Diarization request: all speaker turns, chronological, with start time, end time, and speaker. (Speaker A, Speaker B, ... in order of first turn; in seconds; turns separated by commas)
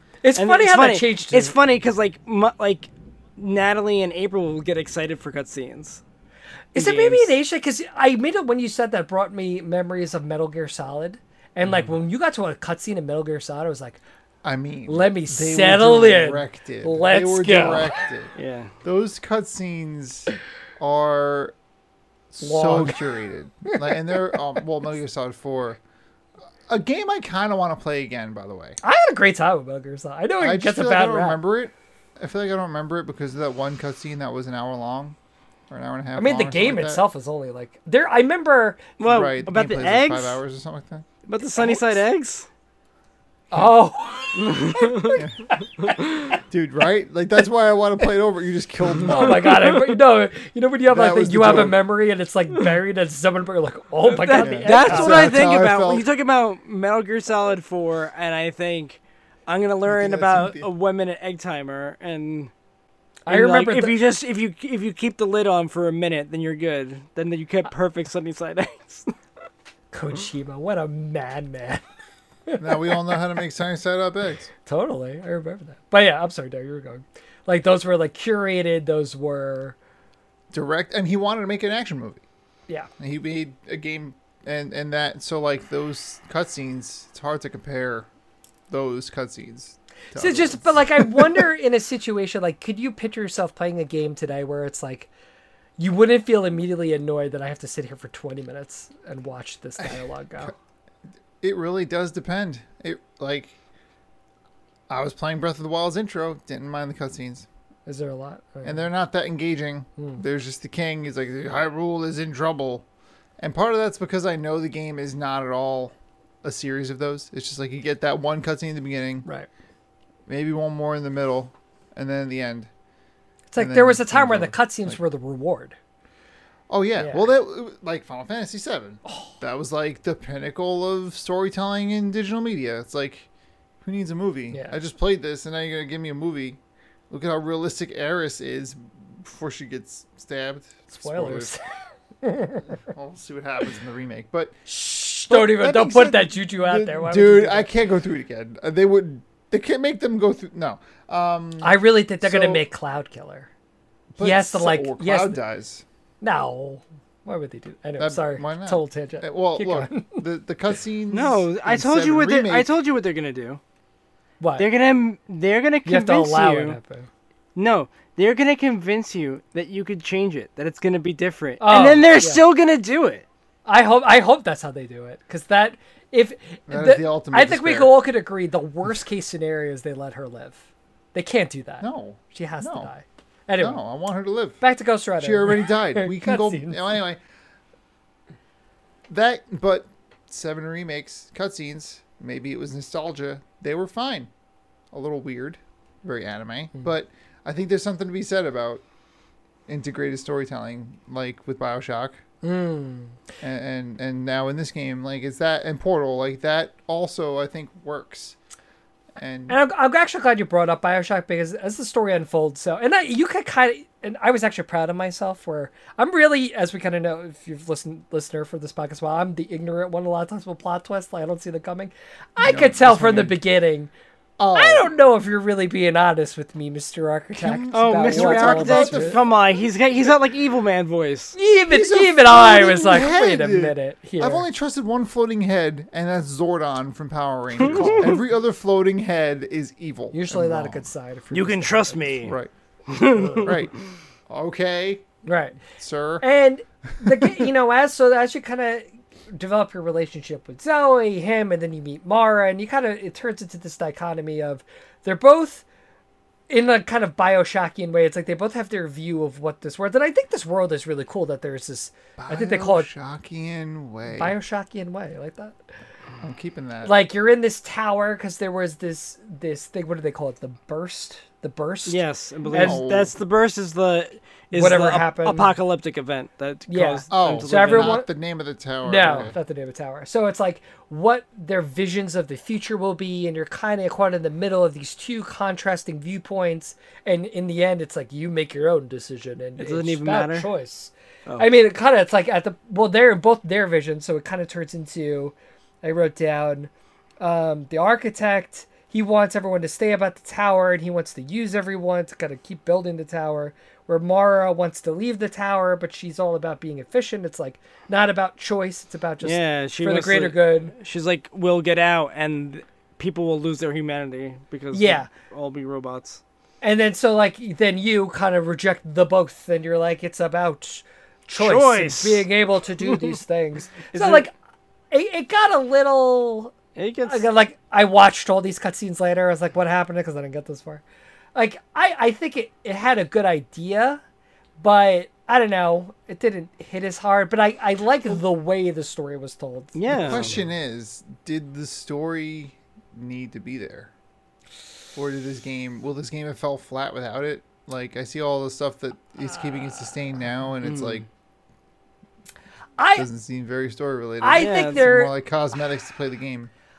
Speaker A: 0.2-1.6, Speaker B: 0.4-6.0, Speaker B: 6.8-7.3, Speaker A: 6.8-14.0, Speaker C: 14.4-21.6, Speaker A: 14.9-17.9, Speaker B: 18.4-18.7, Speaker C: 22.3-25.8, Speaker A: 22.4-23.1, Speaker A: 23.7-24.2, Speaker C: 26.7-28.8, Speaker A: 28.8-31.4, Speaker C: 30.4-35.2, Speaker C: 35.7-37.0, Speaker A: 36.2-38.9, Speaker B: 39.0-40.4, Speaker C: 39.0-41.1, Speaker B: 41.3-42.5, Speaker A: 41.5-42.0, Speaker A: 43.5-46.4, Speaker B: 44.3-45.2, Speaker C: 45.1-45.5, Speaker B: 45.8-46.4, Speaker C: 46.5-49.6, Speaker A: 49.0-55.3, Speaker B: 49.3-49.9, Speaker C: 50.9-51.9, Speaker B: 54.0-62.5, Speaker C: 54.4-56.1, Speaker C: 59.9-60.7, Speaker A: 63.3-64.0, Speaker B: 63.3-69.1, Speaker A: 69.9-71.8, Speaker A: 72.5-73.2, Speaker C: 72.6-74.5, Speaker A: 74.7-79.8, Speaker C: 80.5-82.2, Speaker C: 83.0-88.1, Speaker C: 88.7-91.5, Speaker A: 90.1-95.1, Speaker A: 95.8-100.5, Speaker C: 99.8-100.5, Speaker C: 101.4-103.6, Speaker C: 104.9-107.5, Speaker A: 107.9-108.8, Speaker C: 108.6-112.9, Speaker C: 113.4-119.3, Speaker C: 120.3-122.7, Speaker A: 123.5-125.8, Speaker C: 123.6-125.0, Speaker C: 126.7-133.3, Speaker A: 127.0-127.3, Speaker A: 129.1-129.3, Speaker C: 133.8-141.5, Speaker A: 134.5-134.8, Speaker A: 140.9-141.6, Speaker A: 142.2-142.7, Speaker C: 142.7-144.6, Speaker A: 144.7-147.7, Speaker C: 145.3-152.6, Speaker A: 151.6-153.5, Speaker C: 154.1-155.8, Speaker A: 154.2-155.4, Speaker A: 156.2-160.2, Speaker C: 158.0-162.7, Speaker B: 161.1-163.6, Speaker A: 164.4-164.7, Speaker B: 164.6-166.8, Speaker A: 165.8-167.1, Speaker B: 167.6-173.2, Speaker A: 171.6-172.4, Speaker A: 173.7-183.8, Speaker C: 176.7-178.0, Speaker C: 181.8-182.9, Speaker C: 183.6-184.6, Speaker A: 184.6-186.8, Speaker C: 185.2-187.2, Speaker C: 189.1-194.3, Speaker C: 194.9-198.8, Speaker C: 199.7-202.2, Speaker A: 202.4-203.2, Speaker C: 203.4-208.4, Speaker C: 209.2-209.6, Speaker A: 209.5-223.9, Speaker C: 222.4-223.4, Speaker C: 224.4-224.9, Speaker A: 224.5-229.2, Speaker C: 227.4-229.2, Speaker B: 227.7-231.4, Speaker A: 231.3-234.5, Speaker C: 231.7-240.9, Speaker A: 237.6-238.1, Speaker B: 237.6-238.1, Speaker A: 240.1-242.2, Speaker B: 241.3-242.3, Speaker C: 242.2-242.5, Speaker B: 242.9-243.7, Speaker A: 243.2-243.5, Speaker C: 243.4-243.8, Speaker C: 244.3-245.1, Speaker A: 245.2-245.6, Speaker C: 245.7-246.2, Speaker A: 246.2-255.7, Speaker C: 246.9-247.5, Speaker A: 256.5-262.9, Speaker C: 262.2-264.4, Speaker A: 264.1-265.6, Speaker C: 266.2-266.9, Speaker A: 266.8-272.8, Speaker B: 271.9-278.0, Speaker C: 272.5-273.1, Speaker A: 274.5-275.5, Speaker A: 276.7-278.1, Speaker C: 277.1-279.4, Speaker A: 278.8-310.7, Speaker B: 289.6-290.5, Speaker B: 309.2-316.2, Speaker A: 314.7-315.1, Speaker A: 316.6-324.3, Speaker B: 321.4-322.3, Speaker B: 322.8-323.2, Speaker B: 323.9-324.2, Speaker A: 324.9-330.8, Speaker B: 326.8-327.2, Speaker A: 331.4-334.0, Speaker A: 334.6-340.3, Speaker B: 339.8-340.4, Speaker C: 339.9-343.9, Speaker C: 344.9-351.1, Speaker B: 350.6-351.0, Speaker A: 352.8-353.1, Speaker C: 352.9-356.5, Speaker A: 354.2-355.1, Speaker B: 354.4-354.9